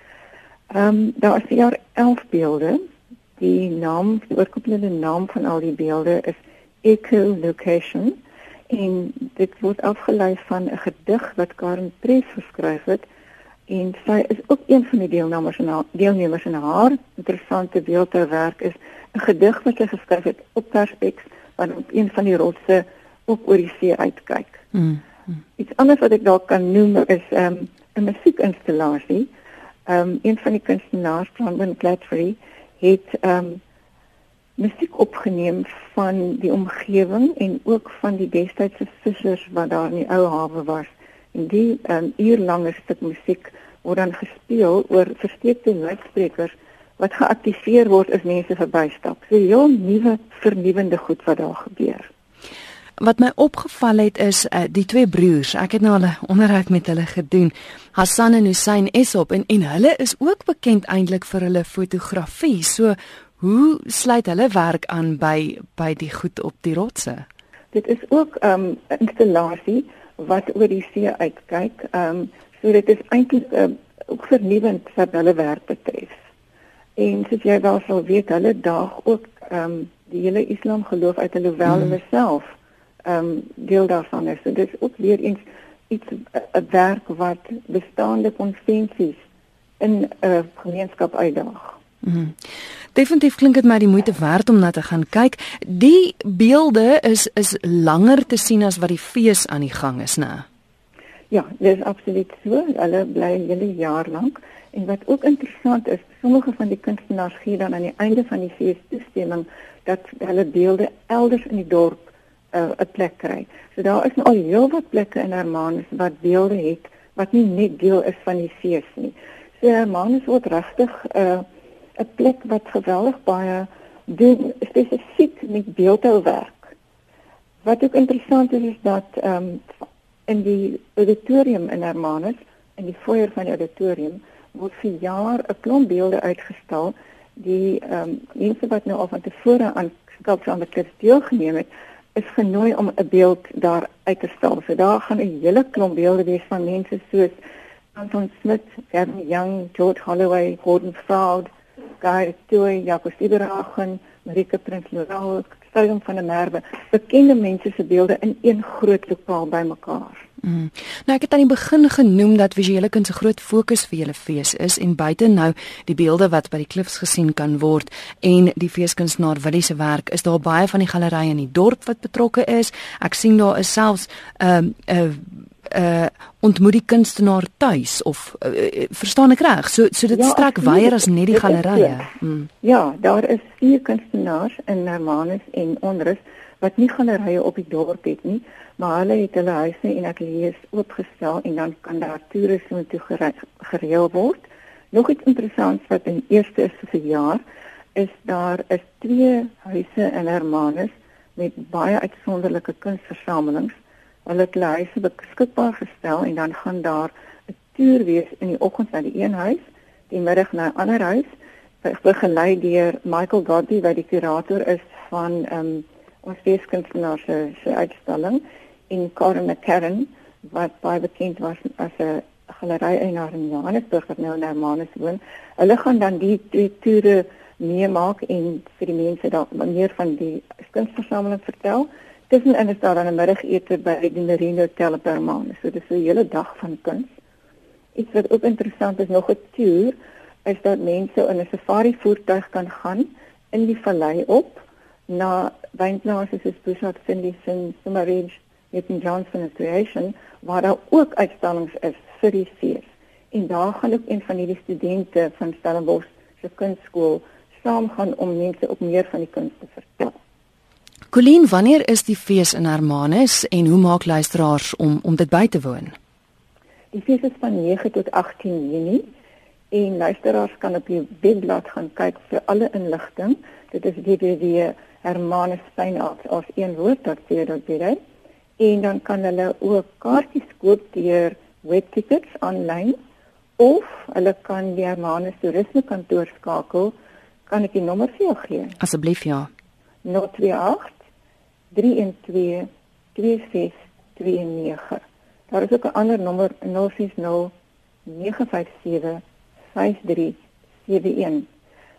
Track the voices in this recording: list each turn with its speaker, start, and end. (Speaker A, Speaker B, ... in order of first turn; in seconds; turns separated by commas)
Speaker A: 0.7-2.8, Speaker A: 3.4-8.2, Speaker A: 8.7-13.0, Speaker A: 13.7-24.6, Speaker A: 25.6-29.3, Speaker A: 29.9-33.6, Speaker A: 34.6-52.1, Speaker B: 53.0-67.2, Speaker A: 67.7-76.1, Speaker A: 77.0-82.5, Speaker B: 81.7-81.9, Speaker A: 83.0-89.2, Speaker A: 89.8-91.8, Speaker B: 92.0-92.3, Speaker B: 92.9-100.5, Speaker A: 101.3-121.5, Speaker A: 122.0-126.7, Speaker A: 127.6-147.3, Speaker A: 147.9-151.5, Speaker A: 152.0-160.3, Speaker B: 160.4-182.5, Speaker A: 180.1-182.1, Speaker A: 182.6-197.4, Speaker A: 197.9-203.7, Speaker A: 204.2-207.1, Speaker A: 207.7-211.3, Speaker A: 211.8-237.1, Speaker A: 237.9-260.1, Speaker B: 261.1-265.9, Speaker A: 266.9-269.1, Speaker A: 269.7-278.0, Speaker A: 278.6-282.9, Speaker A: 283.6-286.9, Speaker A: 287.5-288.8, Speaker B: 288.8-289.5, Speaker A: 290.0-291.0, Speaker A: 291.7-297.5, Speaker A: 298.1-299.2, Speaker A: 299.7-301.4